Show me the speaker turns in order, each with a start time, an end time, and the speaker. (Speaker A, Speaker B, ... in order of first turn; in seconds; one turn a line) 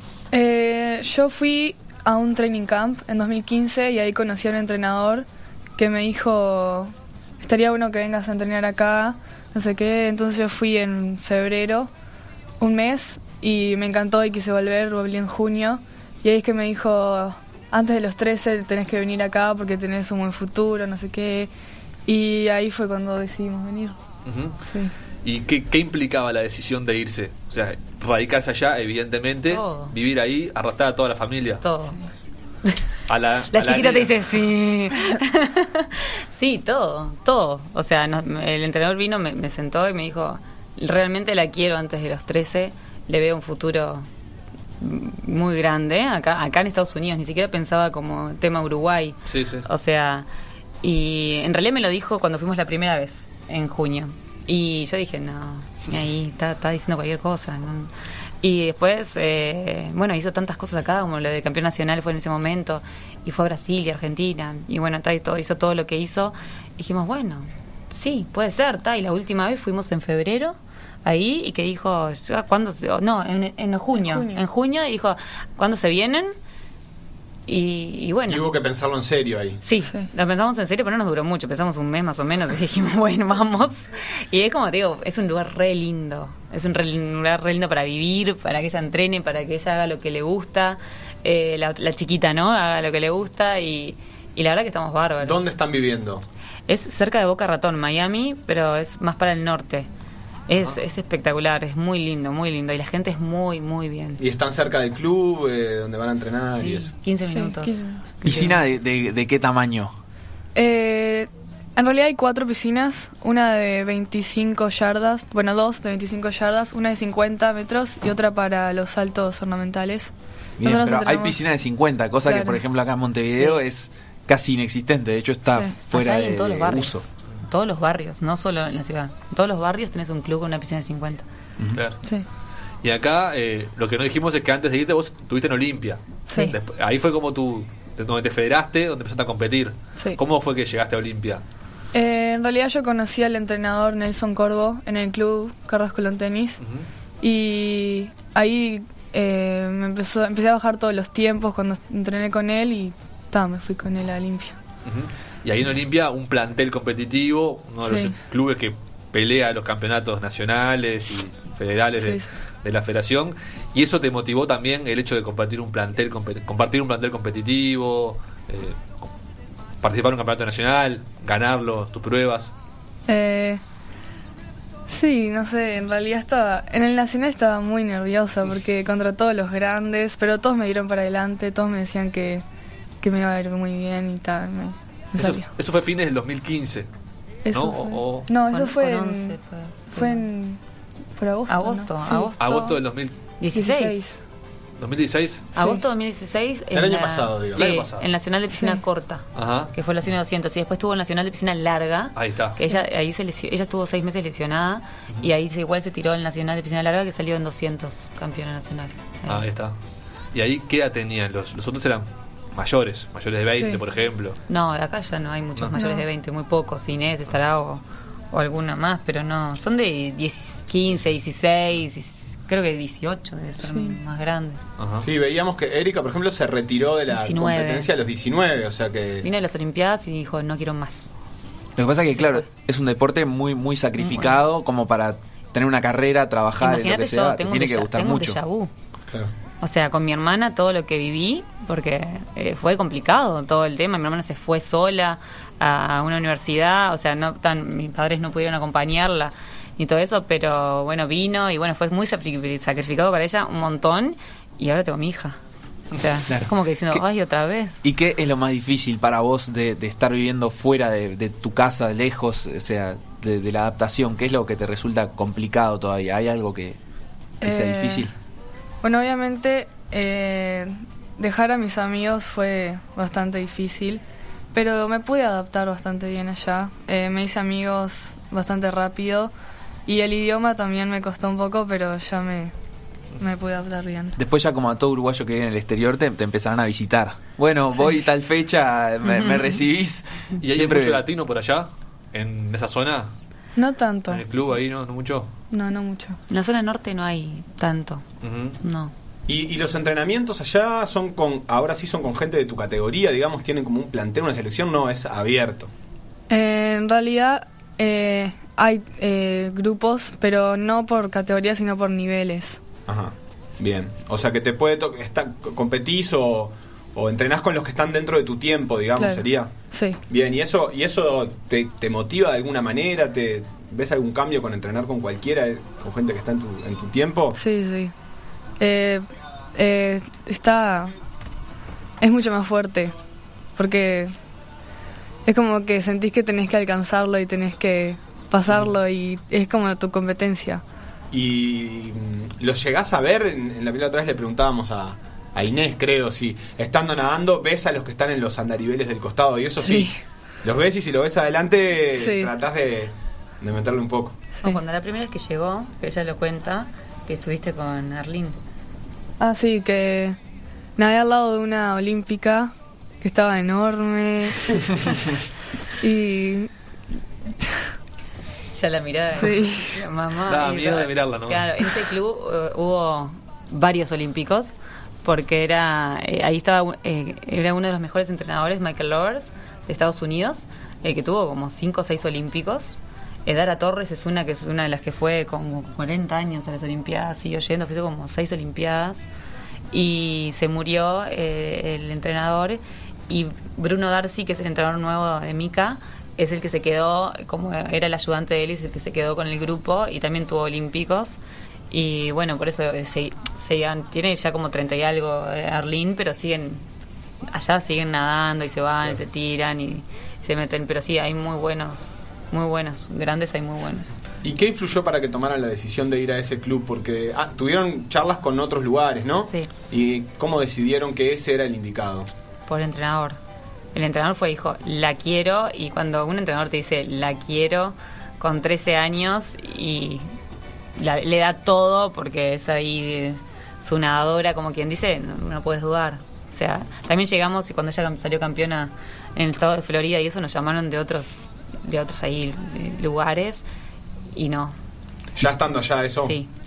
Speaker A: 0.3-11.9
Speaker A: 12.6-21.5
Speaker A: 22.1-24.0
Speaker B: 24.3-24.6
Speaker B: 25.2-31.6
Speaker C: 29.5-29.9
Speaker C: 31.6-32.0
Speaker B: 33.1-34.3
Speaker C: 33.5-44.1
Speaker C: 44.8-50.3
Speaker B: 49.3-49.7
Speaker C: 50.8-57.9
Speaker C: 58.4-76.3
Speaker A: 74.0-74.4
Speaker C: 77.5-78.5
Speaker D: 78.3-79.6
Speaker C: 79.6-95.4
Speaker D: 95.2-96.2
Speaker C: 96.7-99.9
Speaker C: 100.5-104.2
Speaker D: 104.2-106.9
Speaker C: 106.5-108.6
Speaker A: 107.3-108.0
Speaker E: 108.2-109.9
Speaker A: 110.5-120.1
Speaker E: 120.6-127.0
Speaker A: 120.6-121.5
Speaker A: 122.2-122.6
Speaker C: 125.9-131.2
Speaker B: 132.8-141.4
Speaker A: 141.9-146.6
Speaker A: 147.2-154.6
Speaker B: 154.9-169.1
Speaker A: 157.8-158.1
Speaker A: 162.0-162.3
Speaker B: 169.8-172.5
Speaker A: 173.1-173.6
Speaker A: 174.9-182.4
Speaker A: 183.0-185.5
Speaker B: 185.2-186.9
Speaker A: 187.5-189.4
Speaker B: 187.5-188.3
Speaker C: 188.5-190.3
Speaker A: 189.9-190.6
Speaker A: 191.2-192.3
Speaker C: 191.5-192.8
Speaker B: 192.4-193.1
Speaker C: 193.4-194.1
Speaker A: 193.5-194.2
Speaker B: 194.8-195.5
Speaker C: 195.6-209.4
Speaker A: 195.6-195.8
Speaker D: 196.7-197.8
Speaker B: 197.5-198.1
Speaker A: 198.5-198.8
Speaker B: 199.3-199.7
Speaker B: 202.2-202.6
Speaker B: 209.3-209.7
Speaker B: 210.3-214.4
Speaker A: 213.5-213.8
Speaker C: 214.5-224.6
Speaker A: 215.8-216.0
Speaker A: 223.7-224.0
Speaker B: 224.8-225.1
Speaker D: 225.0-229.3
Speaker C: 227.1-227.9
Speaker C: 229.2-231.1
Speaker E: 231.8-238.4
Speaker C: 232.2-232.4
Speaker C: 234.0-234.4
Speaker C: 236.6-238.7
Speaker C: 239.6-255.4
Speaker C: 255.9-257.8
Speaker E: 256.3-257.0
Speaker E: 257.8-266.8
Speaker E: 267.4-268.1
Speaker A: 267.4-268.1
Speaker A: 268.8-274.0
Speaker A: 274.5-279.3
Speaker A: 279.9-282.5
Speaker A: 283.2-284.2
Speaker E: 284.2-291.0
Speaker B: 290.4-293.1
Speaker A: 293.6-294.2
Speaker B: 294.1-295.3
Speaker A: 295.5-296.2
Speaker C: 296.3-298.0
Speaker B: 298.2-298.6
Speaker C: 298.6-298.9
Speaker D: 299.3-305.7
Speaker A: 306.3-312.6
Speaker D: 312.9-319.5
Speaker A: 319.0-320.0
Speaker D: 320.1-327.4
Speaker A: 327.3-327.9
Speaker A: 328.6-330.9
Speaker A: 332.0-332.9
Speaker A: 333.6-334.1
Speaker A: 335.3-340.6
Speaker D: 341.1-349.9
Speaker A: 349.6-350.0
Speaker D: 350.4-354.2
Speaker A: 352.0-352.3
Speaker C: 354.4-358.4
Speaker A: 359.2-360.2
Speaker A: 360.8-365.1
Speaker A: 365.8-366.5
Speaker C: 368.5-374.5
Speaker A: 369.2-369.8
Speaker B: 370.3-371.5
Speaker C: 375.0-389.1
Speaker C: 389.7-401.2
Speaker C: 401.7-406.6
Speaker C: 407.3-413.9
Speaker D: 414.2-422.1
Speaker C: 422.5-423.2
Speaker C: 423.7-430.1
Speaker C: 430.8-443.4
Speaker C: 444.1-444.6
Speaker D: 445.2-446.2
Speaker C: 446.0-446.3